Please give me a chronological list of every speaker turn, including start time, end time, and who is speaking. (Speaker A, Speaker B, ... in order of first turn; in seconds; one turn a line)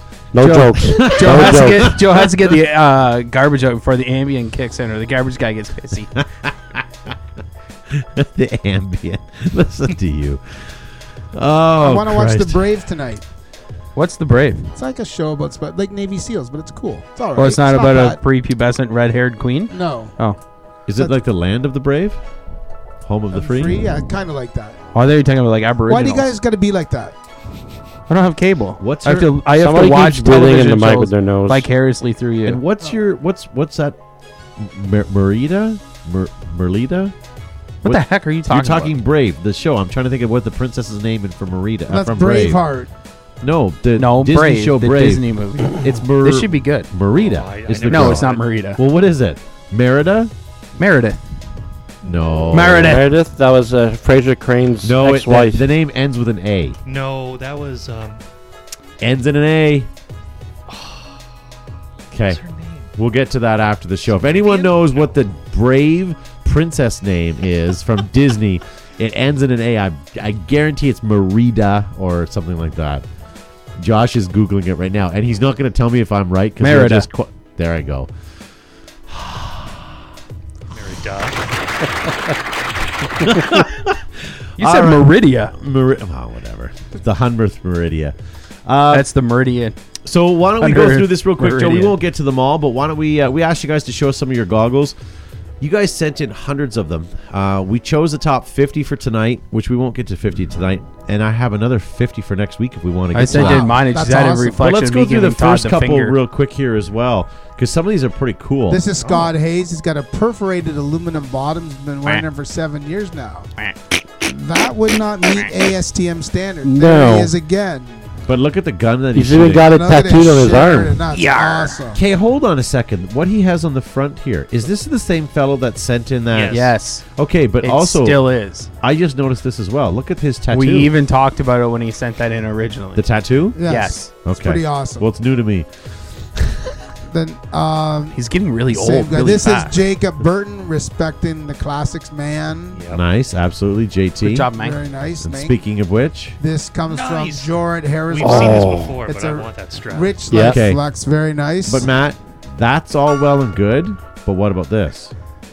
Speaker A: 0.3-2.0
Speaker B: 0.4-6.1
Speaker C: 1.0-2.3
Speaker C: 6.2-6.8
Speaker C: 7.9-10.7
Speaker C: 11.3-12.6
Speaker D: 11.8-13.2
Speaker B: 13.9-14.7
Speaker D: 14.7-18.2
Speaker B: 17.3-20.4
Speaker D: 19.7-20.1
Speaker C: 20.9-22.2
Speaker C: 23.0-23.8
Speaker D: 23.3-24.8
Speaker B: 24.9-26.3
Speaker D: 25.9-27.1
Speaker B: 28.1-32.6
Speaker C: 28.8-29.4
Speaker A: 29.5-31.7
Speaker C: 32.4-34.0
Speaker C: 34.6-37.1
Speaker B: 37.8-38.9
Speaker C: 37.8-42.6
Speaker D: 41.9-42.9
Speaker C: 43.4-50.3
Speaker B: 44.0-46.9
Speaker E: 47.1-48.5
Speaker B: 47.9-48.8
Speaker B: 50.8-51.2
Speaker C: 52.0-53.0
Speaker B: 52.5-53.0
Speaker A: 52.8-55.6
Speaker C: 54.8-56.8
Speaker E: 56.9-58.2
Speaker C: 59.0-59.9
Speaker E: 60.7-61.2
Speaker C: 62.1-62.4
Speaker E: 62.3-62.9
Speaker C: 62.9-73.0
Speaker E: 64.2-65.1
Speaker C: 73.8-78.1
Speaker B: 76.6-77.1
Speaker C: 79.1-79.8
Speaker E: 80.7-81.8
Speaker C: 83.2-88.1
Speaker B: 84.6-85.5
Speaker C: 88.7-89.1
Speaker B: 88.9-89.8
Speaker C: 90.0-95.0
Speaker B: 90.6-92.0
Speaker C: 95.6-103.8
Speaker B: 103.1-106.2
Speaker D: 103.3-104.6
Speaker C: 104.6-108.8
Speaker D: 108.7-113.5
Speaker D: 114.2-118.0
Speaker B: 115.3-115.5
Speaker A: 116.6-117.3
Speaker C: 118.3-119.7
Speaker A: 119.1-121.0
Speaker D: 119.6-122.0
Speaker B: 121.1-121.8
Speaker C: 121.9-128.2
Speaker E: 126.3-126.7
Speaker B: 126.5-127.1
Speaker B: 127.6-128.7
Speaker C: 128.8-130.9
Speaker B: 130.5-133.1
Speaker C: 132.9-133.6
Speaker D: 133.6-135.1
Speaker B: 133.6-134.1
Speaker C: 134.2-135.7
Speaker D: 137.1-142.8
Speaker B: 138.1-139.8
Speaker E: 142.7-143.0
Speaker C: 142.9-144.5
Speaker B: 144.2-144.8
Speaker D: 144.6-145.6
Speaker C: 145.2-146.4
Speaker D: 146.4-151.9
Speaker E: 146.9-147.5
Speaker E: 148.1-150.2
Speaker A: 148.2-149.0
Speaker A: 150.3-150.6
Speaker C: 150.3-150.8
Speaker C: 151.7-155.1